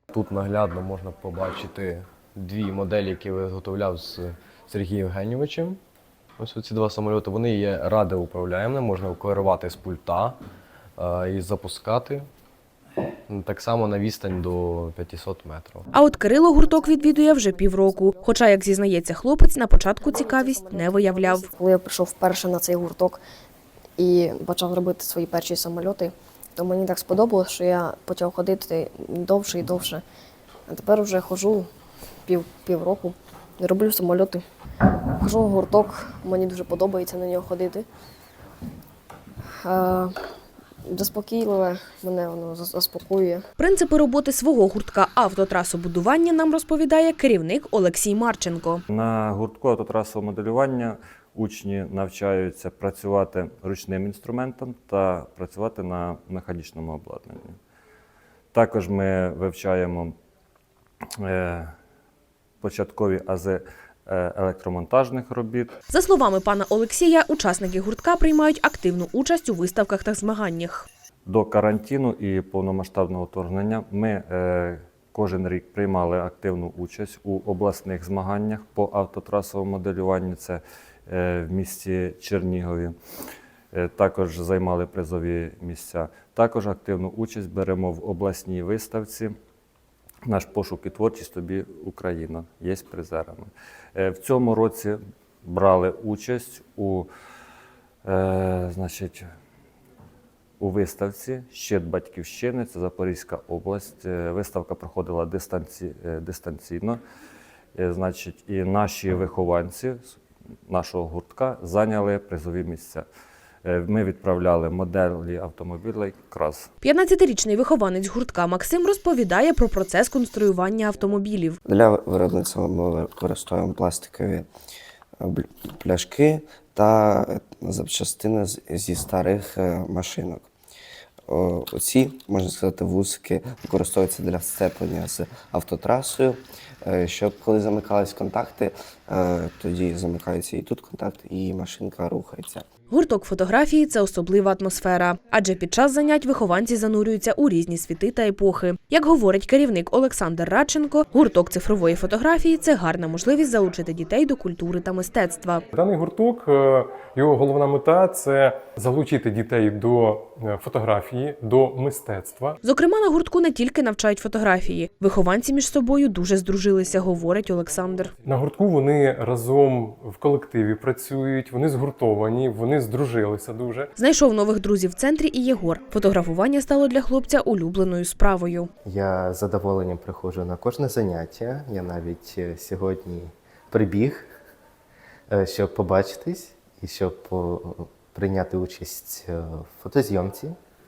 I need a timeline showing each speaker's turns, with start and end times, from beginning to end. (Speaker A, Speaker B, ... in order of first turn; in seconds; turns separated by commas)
Speaker A: 0.1-5.8, Speaker A: 6.4-10.4, Speaker A: 11.0-12.3, Speaker A: 13.3-15.8, Speaker B: 15.9-21.5, Speaker C: 16.2-18.3, Speaker C: 20.0-23.2, Speaker C: 24.0-30.0, Speaker C: 30.7-31.7, Speaker C: 32.3-34.4, Speaker C: 35.1-37.9, Speaker C: 39.6-40.2, Speaker C: 40.9-43.4, Speaker B: 43.6-48.8, Speaker D: 48.9-57.6, Speaker D: 58.5-60.1, Speaker D: 61.2-61.7, Speaker D: 62.6-65.8, Speaker B: 65.9-70.9, Speaker D: 71.3-83.0, Speaker D: 83.7-89.3, Speaker D: 90.3-97.1, Speaker D: 98.0-99.3, Speaker D: 100.6-107.0, Speaker D: 107.8-113.0, Speaker D: 113.7-116.7, Speaker B: 116.8-121.6, Speaker E: 121.7-124.5, Speaker E: 125.2-130.5, Speaker E: 131.3-142.7, Speaker B: 142.9-155.6, Speaker F: 155.7-162.6, Speaker B: 162.6-168.1, Speaker F: 168.3-173.9, Speaker B: 174.0-178.7, Speaker G: 178.8-184.3, Speaker G: 185.3-190.6